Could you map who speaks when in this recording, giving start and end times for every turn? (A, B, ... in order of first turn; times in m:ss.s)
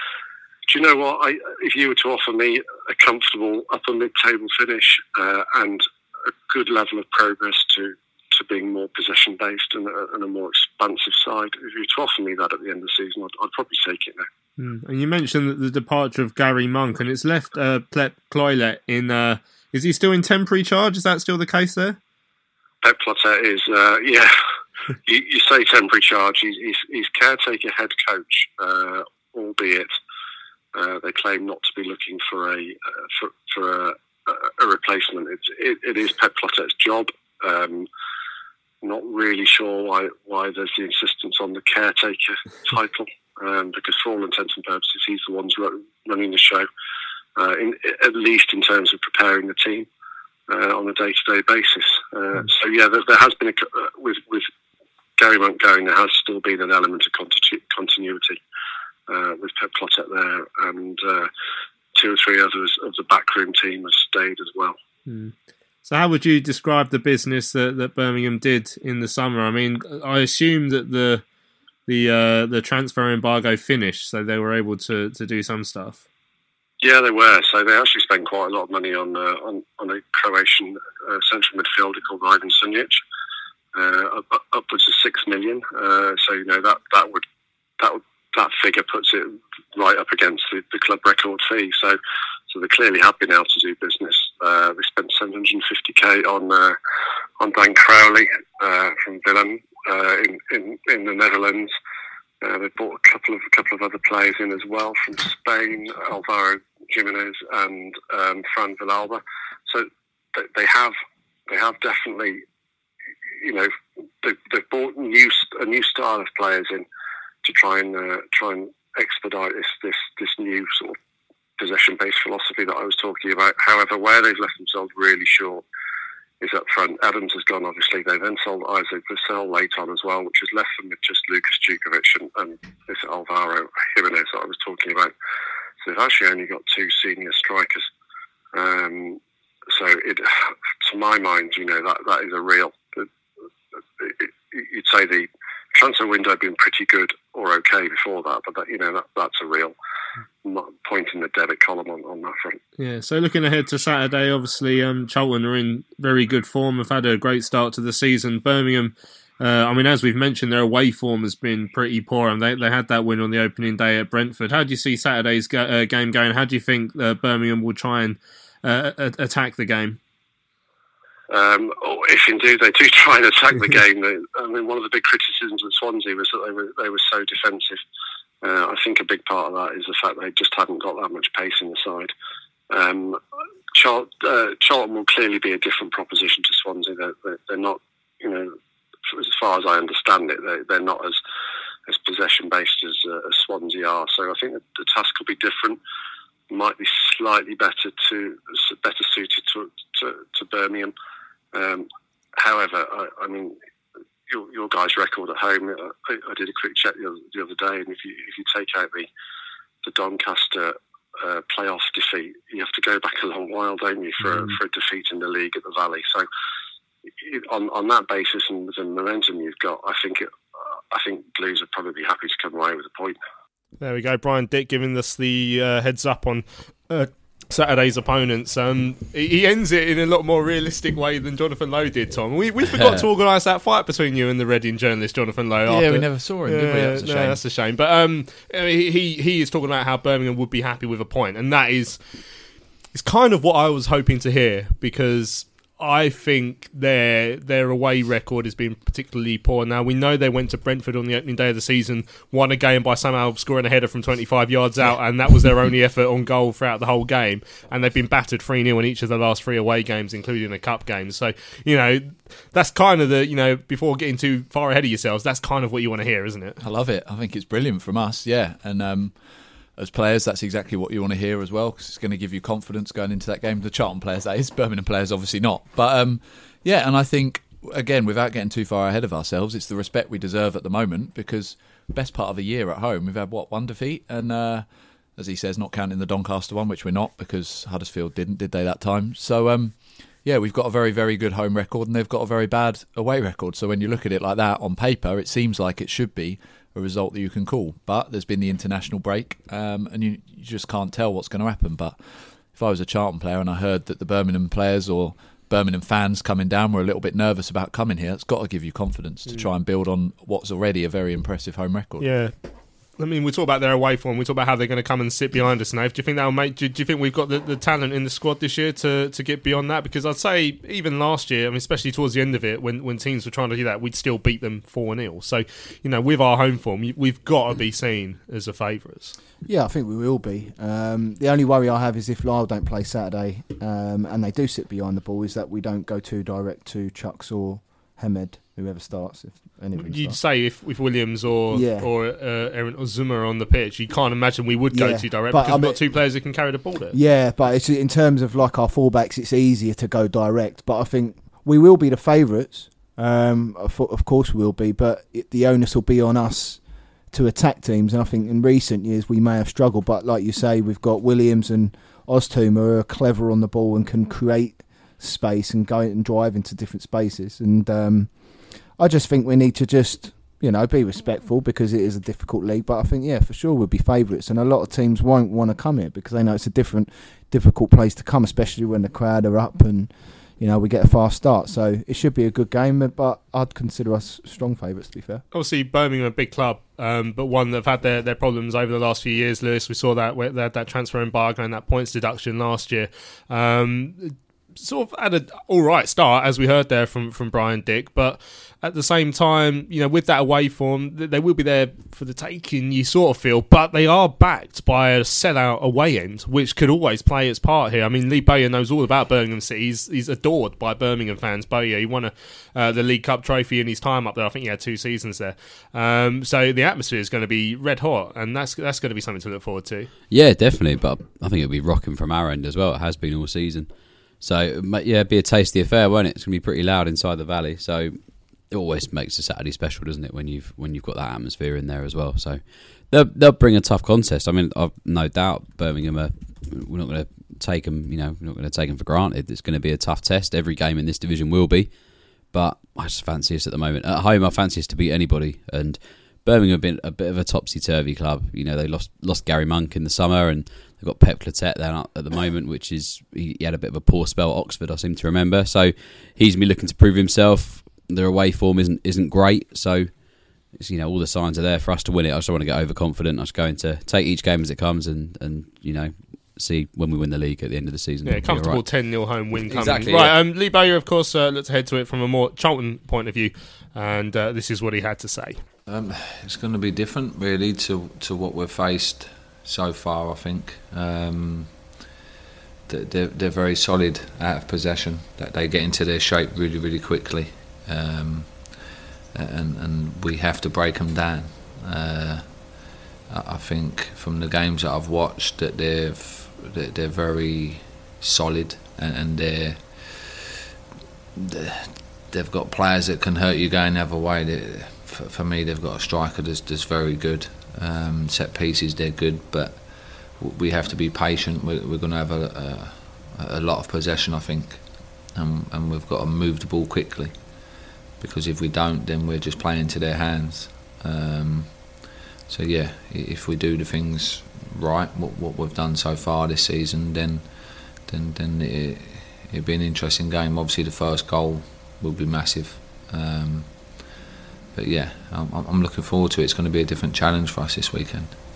0:00.7-0:05.8 A
0:06.5-0:14.3 A
0:14.6-0:22.0 B
0:22.8-0:24.3 A
0:25.1-0:29.9 A
0:30.7-0:37.9 A
0:38.8-0:46.7 A
0:47.4-0:49.9 A
0:50.5-0:54.5 A
0:55.2-0:58.4 A
0:59.1-1:01.3 A
1:02.0-1:04.8 A
1:05.1-1:05.3 B
1:05.8-1:11.2 B
1:11.9-1:16.0 B
1:16.8-1:23.0 A
1:23.7-1:27.2 A
1:27.8-1:32.0 A
1:32.5-1:36.8 A
1:37.4-1:41.7 A
1:42.4-1:51.0 A
1:51.5-1:52.4 A
1:53.4-1:53.7 A
1:54.2-1:56.8 A
1:57.4-2:01.0 A
2:01.6-2:05.6 A
2:06.4-2:15.1 A
2:15.8-2:17.8 A
2:18.5-2:23.1 A
2:24.0-2:29.8 A
2:30.4-2:32.6 A
2:32.8-2:50.0 B
2:51.3-2:57.8 A
2:58.4-3:02.1 A
3:02.7-3:03.2 A
3:03.8-3:08.6 A
3:09.1-3:11.2 A
3:11.9-3:15.8 A
3:16.5-3:20.9 A
3:21.5-3:21.9 A
3:22.4-3:23.6 A
3:24.3-3:29.1 A
3:29.8-3:36.3 A
3:37.2-3:40.3 A
3:40.9-3:43.2 A
3:43.8-4:02.0 B
3:52.8-3:53.0 C
3:55.7-3:57.4 C
4:02.9-4:26.6 B
4:26.6-4:29.2 C
4:29.8-5:02.0 C
5:02.5-5:12.1 C
5:12.0-5:12.3 B
5:13.0-5:29.2 B
5:29.4-5:40.2 D
5:39.8-5:47.0 B
5:41.5-5:41.9 D
5:44.7-5:46.0 D
5:46.9-6:25.2 D
6:25.3-6:59.9 B
7:00.1-7:50.1 E
7:48.0-7:55.4 B
7:55.7-8:01.8 F
8:02.7-8:20.2 F
8:21.2-8:53.9 F
8:54.5-8:58.2 F